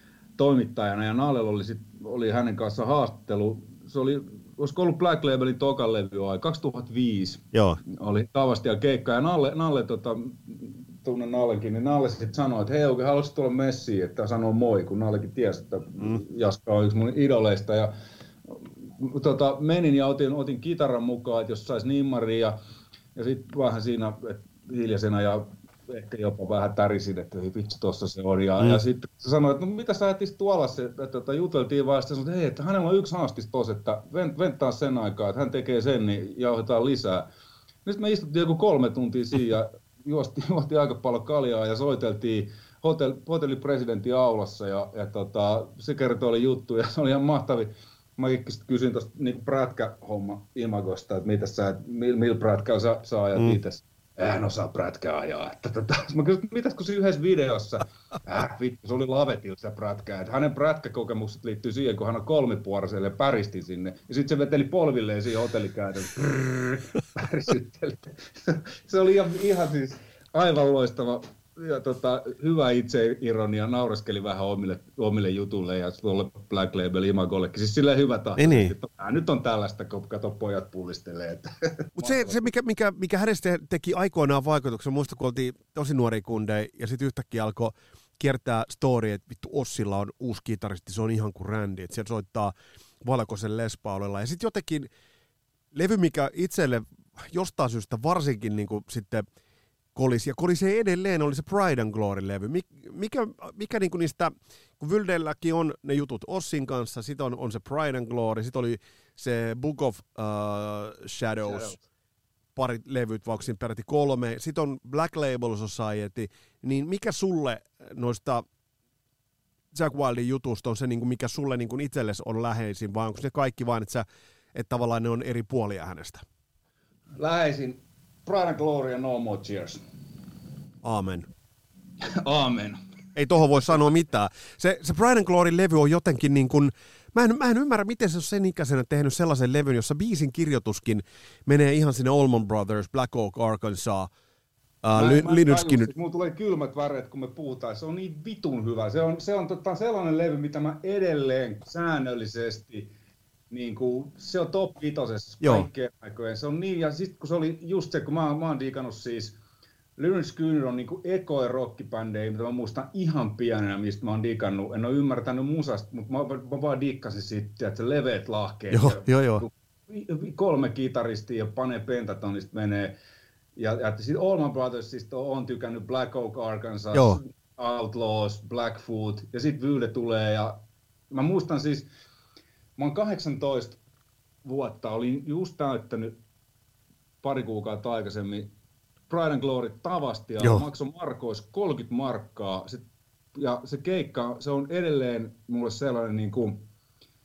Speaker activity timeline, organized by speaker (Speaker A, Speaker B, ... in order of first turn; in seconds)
Speaker A: 0.4-17.9, 18.5-22.6, 23.1-37.3, 37.9-82.4, 111.5-111.8, 127.2-129.8, 132.0-132.8, 144.9-152.9, 153.5-159.4, 160.0-173.0, 173.6-181.9, 182.8-183.8, 184.4-186.2, 187.2-188.5, 189.1-192.8, 193.3-196.7
Speaker B: 7.5-7.8, 78.4-78.7, 82.0-94.9, 95.7-99.2, 100.0-111.8, 112.6-118.5, 119.7-126.2, 130.8-131.3, 133.2-144.1, 144.8-145.9, 155.4-155.7, 168.7-169.4, 176.9-177.2